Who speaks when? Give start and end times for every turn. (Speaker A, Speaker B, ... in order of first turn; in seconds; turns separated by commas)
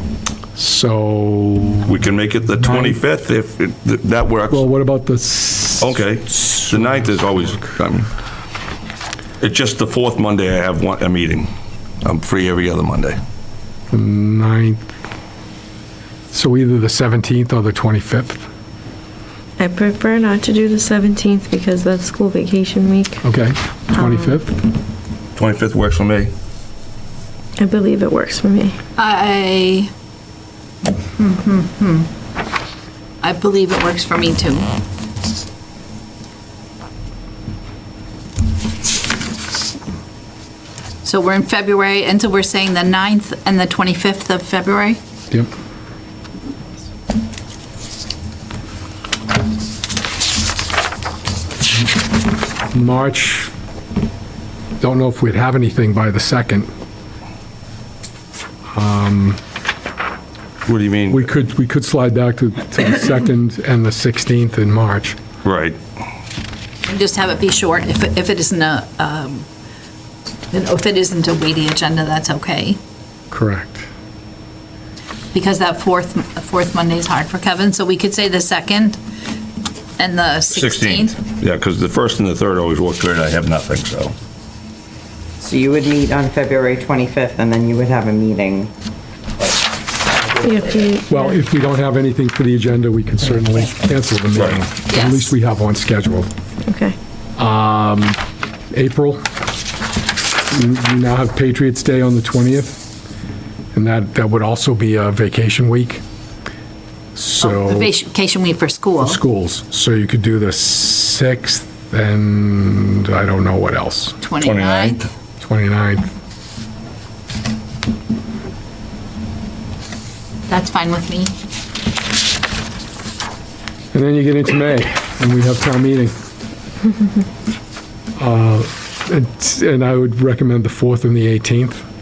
Speaker A: 0.6-1.9, Speaker B: 1.9-4.6, Speaker A: 2.6-3.0, Speaker A: 4.5-7.8, Speaker B: 5.8-8.1, Speaker B: 9.4-11.5, Speaker B: 12.0-13.2, Speaker A: 13.9-14.8, Speaker A: 16.3-18.5, Speaker C: 19.6-23.2, Speaker A: 23.2-24.6, Speaker C: 23.9-24.4, Speaker B: 25.4-26.3, Speaker C: 27.6-28.8, Speaker D: 29.0-29.9, Speaker D: 31.2-32.1, Speaker D: 33.2-34.7, Speaker D: 41.0-45.0, Speaker A: 52.7-53.5, Speaker A: 54.8-56.7, Speaker A: 58.7-59.4, Speaker B: 60.6-61.3, Speaker A: 61.1-65.2, Speaker B: 65.4-65.8, Speaker D: 66.9-69.5, Speaker D: 70.5-72.8, Speaker A: 73.3-73.9, Speaker D: 75.3-79.0, Speaker D: 80.0-81.2, Speaker B: 80.5-84.2, Speaker E: 85.4-88.7, Speaker E: 90.2-90.4, Speaker C: 90.4-91.3, Speaker A: 91.1-96.3, Speaker D: 94.9-95.3, Speaker C: 96.7-97.0, Speaker A: 97.4-98.2, Speaker A: 98.7-99.2, Speaker A: 100.5-102.8, Speaker A: 103.7-106.0, Speaker A: 107.2-107.9, Speaker D: 107.4-109.2, Speaker A: 109.0-114.2, Speaker D: 114.2-115.0, Speaker B: 114.4-115.1, Speaker A: 115.4-116.1, Speaker D: 120.5-121.3, Speaker A: 123.9-126.1, Speaker A: 128.2-131.8